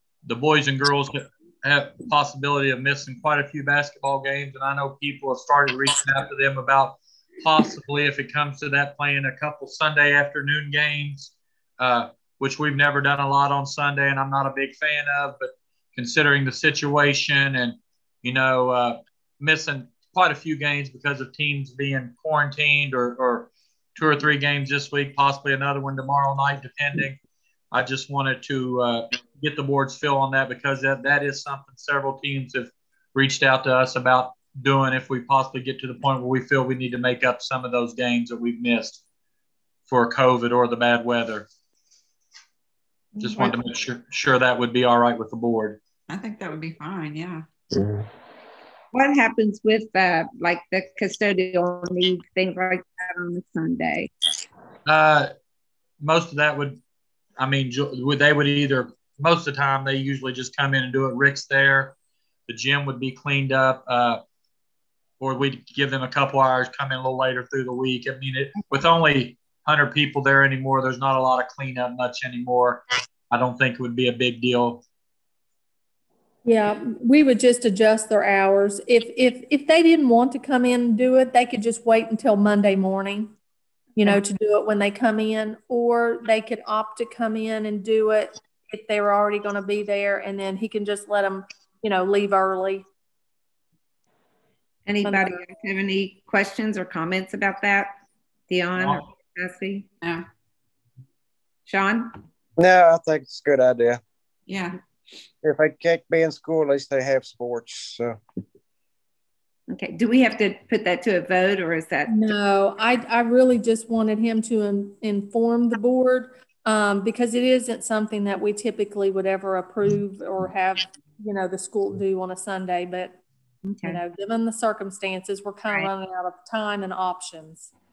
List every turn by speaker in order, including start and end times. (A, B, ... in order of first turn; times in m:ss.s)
0:00.3-0:27.2 A
0:27.7-0:39.0 A
0:39.9-0:41.5 A
0:43.2-0:43.5 B
0:43.2-0:45.8 A
0:46.1-0:47.5 C
0:48.9-0:54.1 B
0:54.9-0:55.3 A
0:56.0-0:56.8 A
0:57.4-1:02.0 A
1:02.5-1:04.2 A
1:05.2-1:14.8 A
1:16.4-1:23.3 D
1:24.0-1:32.9 D
1:34.9-1:37.9 B
1:35.0-1:35.4 D
1:38.5-1:39.9 B
1:38.8-1:39.0 A
1:40.0-1:40.3 C
1:41.7-1:42.2 B
1:42.6-1:44.0 E
1:44.5-1:44.8 C
1:45.4-1:48.2 E
1:49.7-1:52.3 B
1:52.1-2:03.2 D
2:03.6-2:04.0 B
2:03.8-2:07.7 D